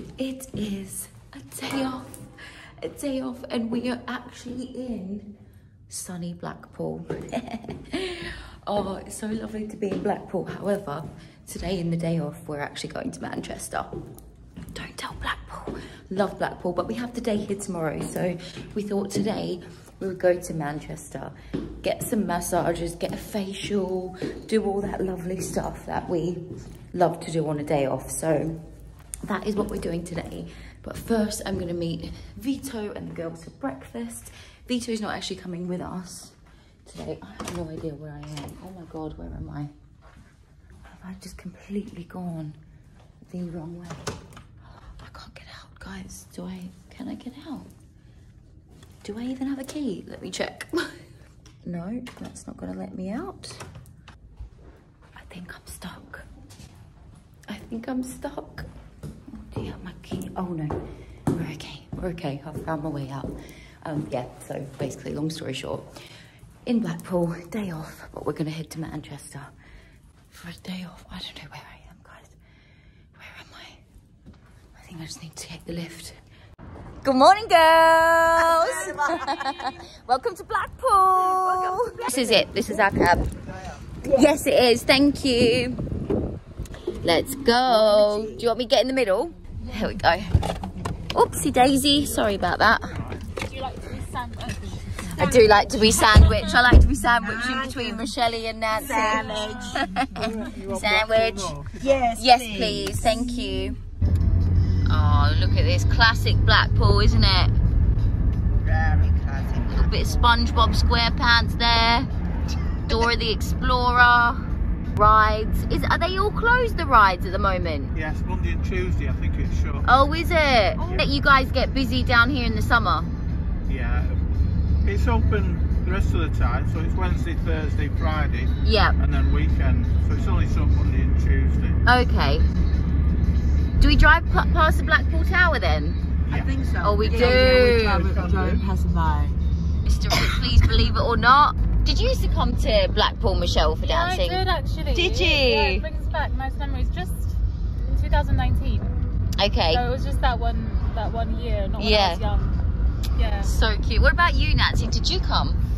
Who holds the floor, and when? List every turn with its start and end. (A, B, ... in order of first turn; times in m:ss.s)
0:00.2-0:02.2 A
0:02.8-0:05.3 A
0:05.9-0:14.0 A
0:14.7-0:28.6 A
0:29.2-0:39.7 A
0:40.9-0:42.6 A
0:43.3-0:44.1 A
0:44.8-0:47.7 A
0:49.0-0:51.0 A
0:51.6-0:53.6 A
0:55.2-0:56.3 A
0:57.5-0:58.7 A
0:59.3-1:05.9 A
1:06.6-1:09.5 A
1:10.3-1:12.4 A
1:13.2-1:13.8 A
1:14.8-1:16.2 A
1:17.0-1:23.3 A
1:18.3-1:19.8 B
1:21.1-1:22.9 B
1:23.4-1:24.3 B
1:24.1-1:25.8 A
1:27.0-1:30.3 A
1:27.6-1:28.5 B
1:31.1-1:33.0 A
1:33.4-1:35.3 C
1:35.1-1:36.1 B
1:35.1-1:41.6 A
1:36.1-1:36.6 C
1:37.2-1:38.1 B
1:38.8-1:39.9 B
1:38.8-1:39.7 C
1:40.1-1:42.0 D
1:41.8-1:43.4 B
1:42.2-1:43.8 A
1:44.9-1:47.5 A
1:48.6-1:50.3 B
1:49.7-1:52.1 A
1:52.7-1:53.1 B
1:52.9-1:54.4 A
1:55.0-1:57.9 A
1:57.9-1:59.9 D
1:59.8-2:03.1 A
2:00.8-2:01.1 B
2:00.8-2:01.1 D
2:03.7-2:04.2 D
2:04.8-2:11.8 D
2:08.6-2:09.0 A
2:11.8-2:12.5 A
2:13.8-2:16.0 A
2:16.3-2:18.6 D
2:16.3-2:19.4 B
2:16.8-2:18.1 A
2:19.8-2:24.4 A
2:23.8-2:28.9 C
2:25.0-2:25.9 A
2:29.4-2:29.8 A
2:29.7-2:32.6 C
2:31.8-2:32.2 A
2:33.2-2:33.5 C
2:33.4-2:35.6 A